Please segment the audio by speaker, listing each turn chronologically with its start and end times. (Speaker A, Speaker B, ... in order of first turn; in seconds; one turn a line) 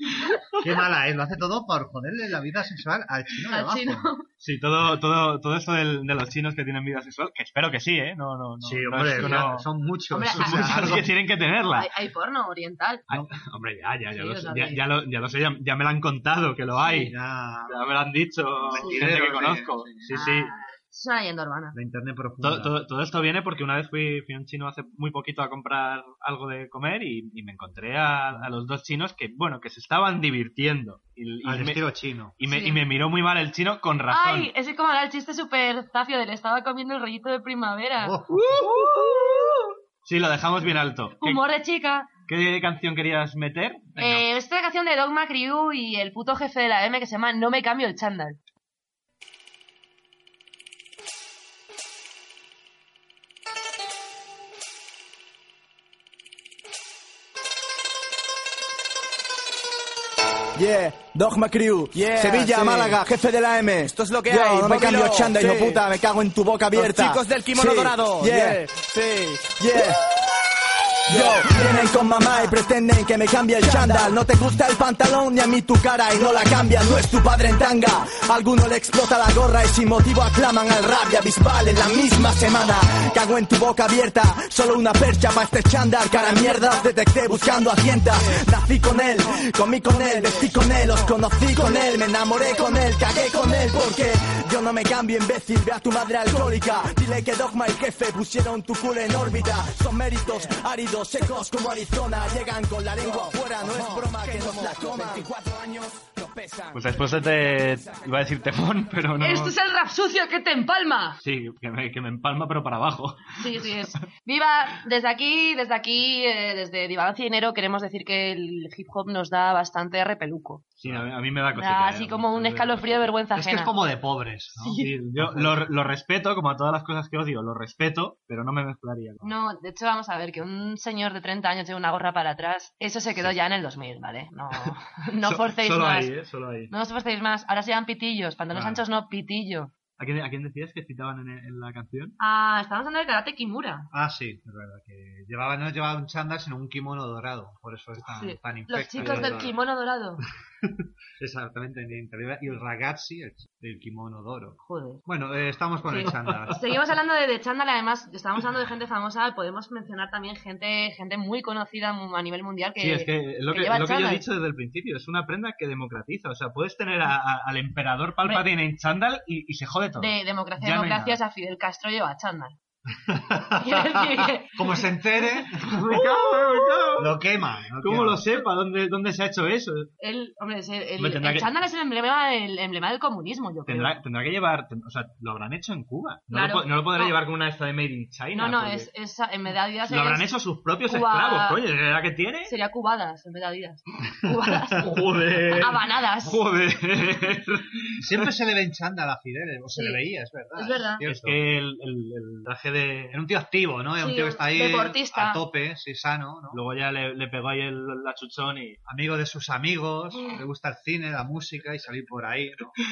Speaker A: 0.6-4.1
Speaker B: 3.5-4.2
Speaker C: 4.4-9.7
Speaker A: 8.6-11.1
Speaker B: 9.1-9.4
Speaker B: 10.1-11.1
Speaker C: 10.3-11.9
Speaker B: 11.8-13.0
Speaker C: 13.1-17.1
Speaker B: 14.1-14.8
Speaker A: 16.8-17.9
Speaker C: 17.7-20.5
Speaker A: 18.6-20.2
Speaker B: 18.7-19.1
Speaker B: 20.1-21.8
Speaker A: 21.7-22.8
Speaker C: 22.4-31.8
Speaker A: 31.4-32.4
Speaker C: 32.4-34.5
Speaker B: 32.4-32.8
Speaker B: 34.1-39.7
Speaker A: 38.0-38.7
Speaker C: 38.3-41.4
Speaker B: 41.2-42.1
Speaker C: 42.3-44.2
Speaker B: 44.0-48.4
Speaker D: 60.5-68.7
Speaker E: 64.0-65.0
Speaker E: 66.9-69.4
Speaker D: 69.5-70.0
Speaker D: 71.0-106.7
Speaker C: 106.7-109.5
Speaker B: 109.2-111.2
Speaker C: 111.2-113.7
Speaker B: 113.4-120.6
Speaker C: 120.8-123.1
Speaker B: 121.5-123.7
Speaker A: 123.3-125.7
Speaker B: 124.6-124.9
Speaker C: 124.7-129.3
Speaker B: 129.2-136.1
Speaker C: 134.6-136.7
Speaker B: 136.7-139.7
Speaker C: 140.0-142.2
Speaker B: 142.2-143.9
Speaker A: 143.9-149.6
Speaker B: 148.2-150.2
Speaker C: 148.9-149.5
Speaker A: 150.6-156.6
Speaker B: 154.7-155.0
Speaker B: 155.9-164.2
Speaker C: 156.2-156.5
Speaker C: 162.8-171.2
Speaker B: 170.0-172.6
Speaker A: 172.9-175.8
Speaker B: 173.6-174.9
Speaker C: 175.6-177.2
Speaker B: 175.9-176.9
Speaker A: 176.9-178.4
Speaker C: 177.8-179.9
Speaker B: 180.0-183.9
Speaker C: 181.0-181.5
Speaker C: 183.7-188.9
Speaker B: 186.3-187.2
Speaker B: 188.3-190.3
Speaker C: 189.8-192.6
Speaker B: 190.8-191.6
Speaker B: 192.4-196.4
Speaker C: 194.7-198.3
Speaker A: 198.0-201.4
Speaker B: 199.7-200.0
Speaker B: 200.6-201.0
Speaker C: 201.0-203.2
Speaker A: 203.1-206.6
Speaker B: 204.0-205.4
Speaker C: 206.5-208.8
Speaker A: 208.8-212.7